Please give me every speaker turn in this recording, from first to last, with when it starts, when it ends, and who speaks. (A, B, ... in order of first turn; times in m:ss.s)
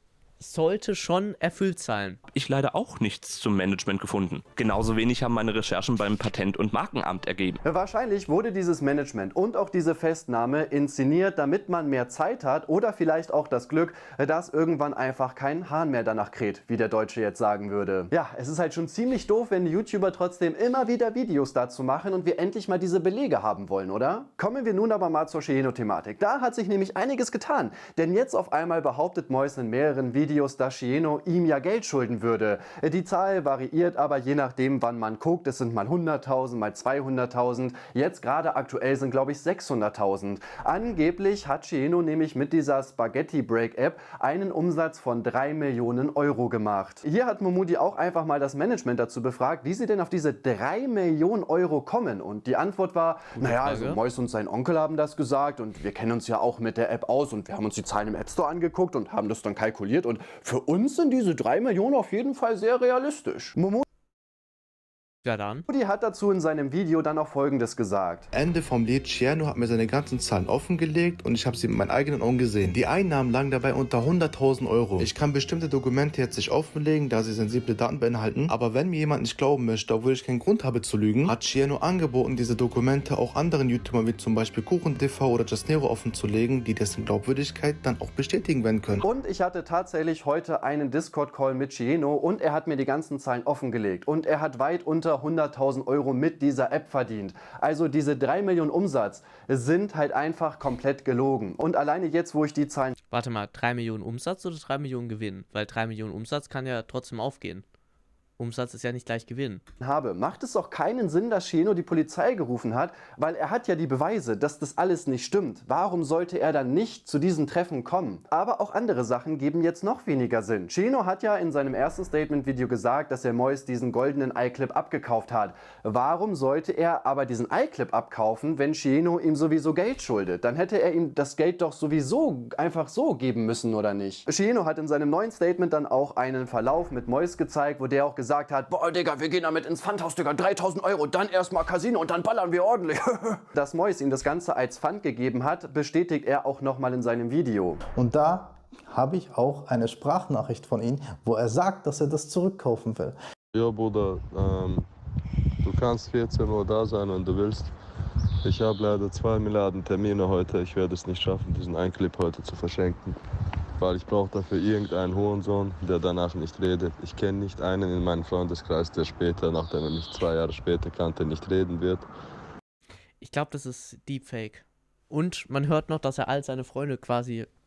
0:00.4-0:02.2 A
0:02.3-0:07.6 B
0:07.6-1:03.8 C
0:53.4-0:54.0 A
1:05.2-1:05.6 A
1:05.7-1:08.3 C
1:08.3-1:29.1 D
1:29.0-1:43.0 C
1:43.1-1:47.6 A
1:48.4-1:49.6 A
1:49.8-2:27.8 C
2:27.9-2:33.2 E
2:33.5-2:34.9 F
2:35.6-2:37.7 F
2:38.4-2:43.1 F
2:43.8-2:52.1 F
2:53.2-2:57.5 A